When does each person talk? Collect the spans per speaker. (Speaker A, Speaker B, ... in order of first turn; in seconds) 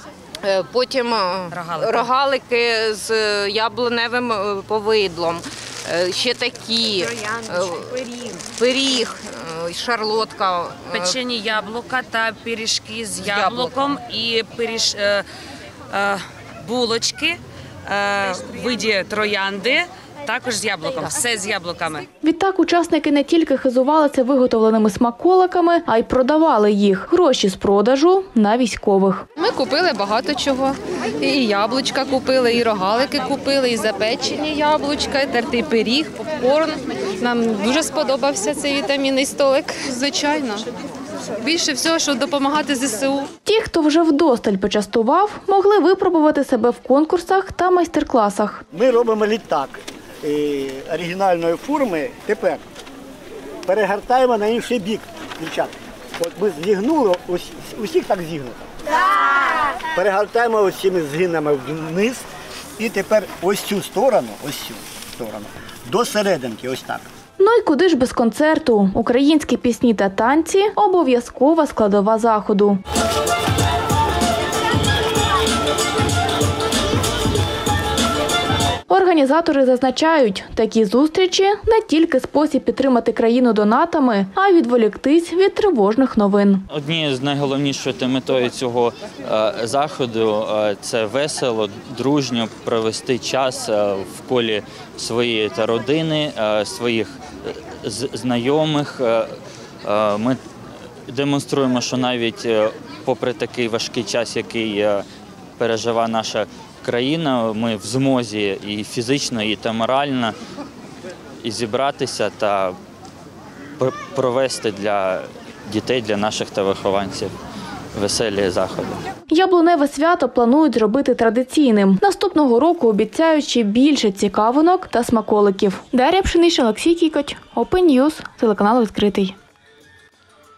Speaker A: 0.4-11.2, 13.2-13.7
Speaker B: 1.5-2.1, 10.9-15.2, 15.9-22.1
Speaker C: 22.2-29.2, 43.5-48.6, 67.4-72.8, 78.9-86.7, 119.3-129.4
Speaker D: 29.4-40.7, 41.4-43.3
Speaker E: 48.7-52.6, 53.7-58.7, 60.0-62.2, 62.8-67.1
Speaker F: 86.7-100.4, 101.1-105.0, 105.6-110.3, 111.4-112.8, 113.8-117.3, 117.9-119.0